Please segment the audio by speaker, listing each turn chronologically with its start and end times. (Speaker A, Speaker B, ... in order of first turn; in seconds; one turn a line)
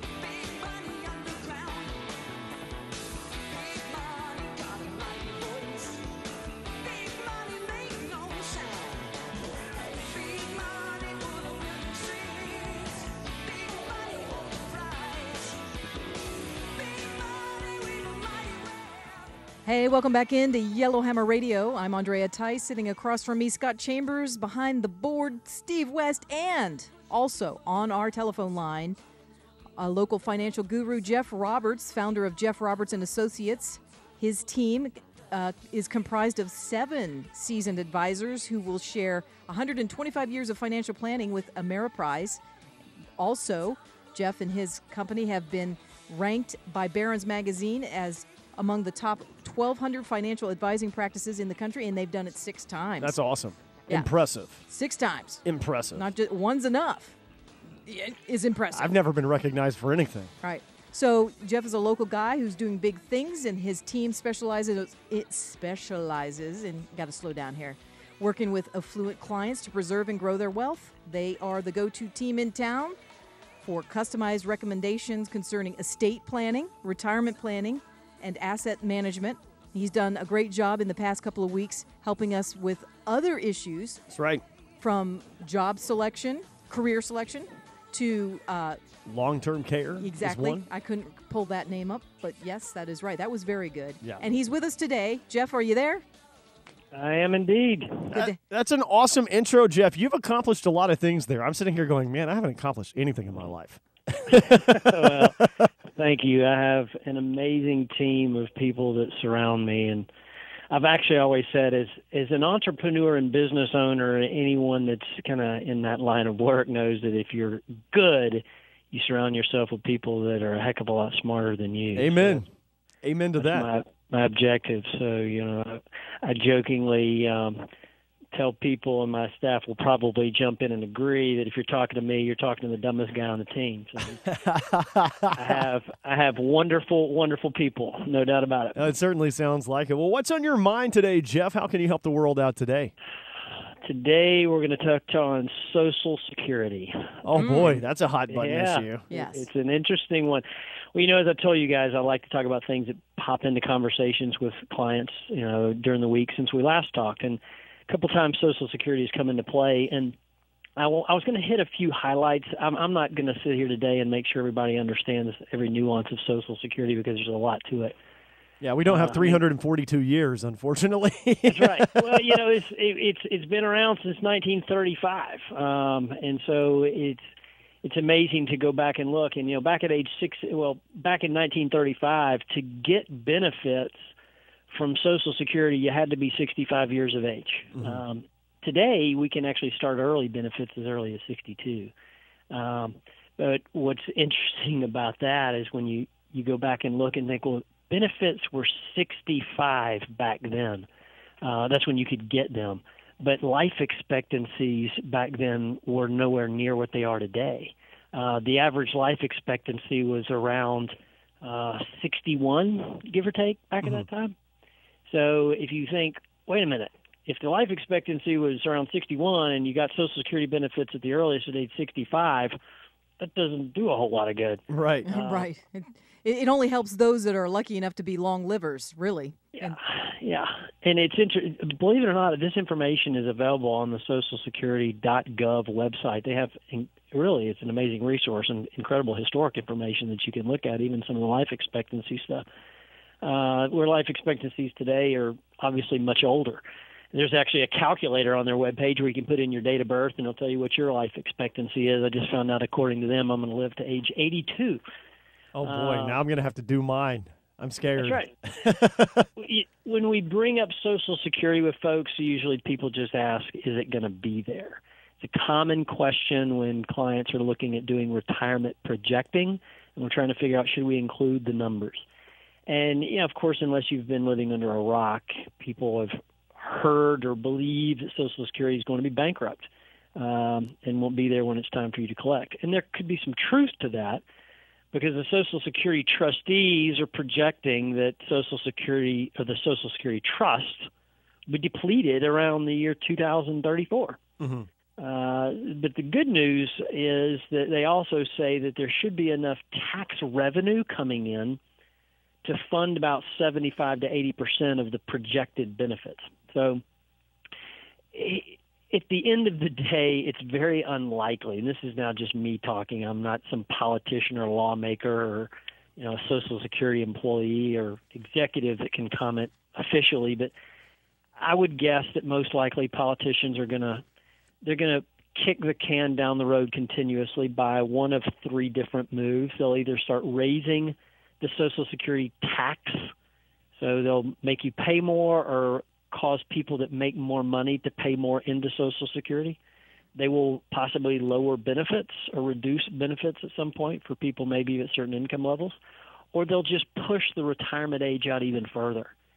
Speaker A: 0.2-2.0
Speaker A: 3.7-6.1
Speaker A: 6.8-9.1
Speaker A: 9.9-15.6
Speaker A: 16.8-19.0
Speaker A: 19.6-29.0
Speaker A: 29.8-42.4
Speaker A: 43.2-53.2
Speaker B: 53.0-54.6
Speaker A: 53.9-57.2
Speaker B: 55.5-56.0
Speaker A: 57.8-59.0
Speaker B: 58.7-60.3
Speaker A: 60.4-73.0
Speaker A: 73.6-84.0
Speaker B: 84.1-84.4
Speaker A: 84.8-88.8
Speaker B: 89.1-90.6
Speaker A: 90.0-96.0
Speaker C: 96.9-98.1
Speaker B: 98.1-105.5
Speaker C: 104.3-110.1
Speaker C: 110.7-122.5
Speaker B: 122.0-122.5
Speaker B: 123.0-123.7
Speaker C: 123.4-127.7
Speaker C: 128.3-134.3
Speaker B: 134.3-135.6
Speaker C: 135.3-138.8
Speaker B: 138.8-142.9
Speaker C: 143.8-147.2
Speaker B: 147.2-149.1
Speaker A: 147.4-147.8
Speaker C: 148.3-160.2
Speaker A: 149.1-149.5
Speaker C: 160.8-167.9
Speaker B: 168.6-172.3
Speaker C: 168.9-169.4
Speaker C: 171.5-177.2
Speaker C: 177.8-184.0
Speaker C: 184.7-191.9
Speaker C: 192.5-200.9
Speaker C: 201.4-214.3
Speaker C: 215.1-222.6
Speaker C: 223.2-225.5
Speaker B: 224.7-225.1
Speaker A: 225.1-229.8
Speaker C: 229.6-242.4
Speaker C: 243.2-254.8
Speaker B: 255.6-259.3
Speaker C: 255.6-256.2
Speaker C: 258.0-258.3
Speaker C: 259.4-272.0
Speaker C: 272.7-284.2
Speaker C: 284.9-290.9
Speaker C: 291.5-294.2
Speaker B: 294.4-294.7
Speaker C: 295.0-301.6
Speaker C: 302.4-306.8
Speaker C: 308.1-320.5
Speaker C: 321.4-324.0
Speaker C: 324.6-333.1
Speaker C: 333.8-339.6
Speaker C: 340.2-345.8
Speaker C: 346.3-349.1